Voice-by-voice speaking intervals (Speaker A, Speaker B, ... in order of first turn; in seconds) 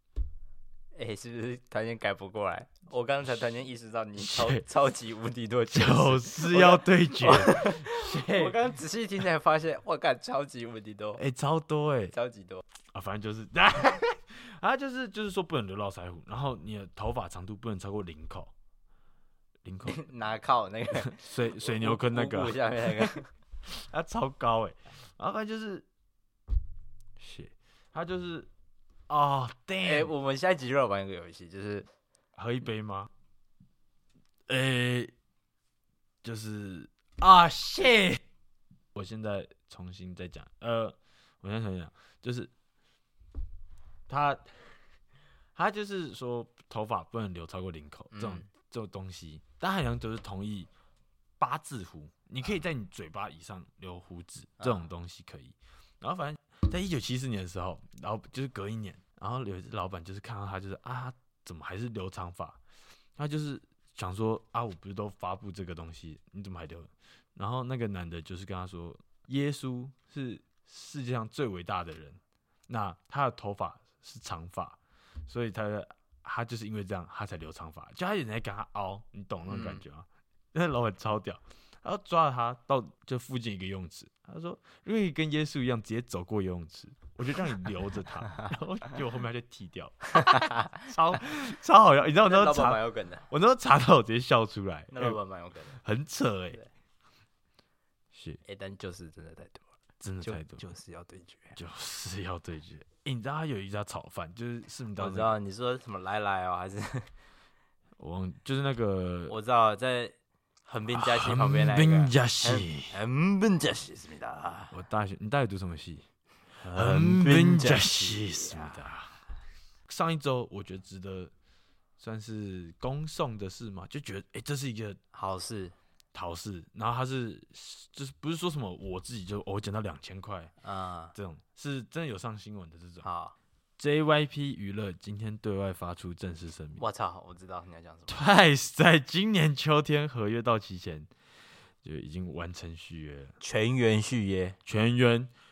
Speaker A: 0.9-11.2, 12.1-12.6, 19.9-23.3, 29.8-31.9, 48.1-48.5, 54.6-54.9, 79.4-79.8, 90.2-90.8, 92.2-93.2, 94.9-95.8, 98.4-99.7, 100.2-101.6, 104.9-107.1, 109.3-110.1, 110.7-114.8, 116.6-118.8, 125.1-125.7, 130.6-131.1, 133.0-133.3, 136.8-138.2, 143.4-144.6
Speaker B: 4.2-4.6, 5.7-8.6, 11.2-12.1, 12.9-18.5, 19.6-20.1, 21.0-23.1, 23.6-25.9, 27.2-28.5, 29.1-30.1, 32.4-33.1, 34.5-35.1, 36.2-38.2, 38.9-42.5, 44.1-44.8, 45.5-50.7, 51.4-62.6, 63.2-95.2, 95.7-96.6, 98.1-98.4, 100.0-100.6, 101.5-105.3, 108.0-109.3, 110.9-113.0, 114.7-116.0, 116.6-119.2, 119.8-121.3, 122.0-125.0, 126.1-130.5, 131.1-133.0, 133.8-136.8, 138.1-141.1, 141.8-143.3, 144.6-145.3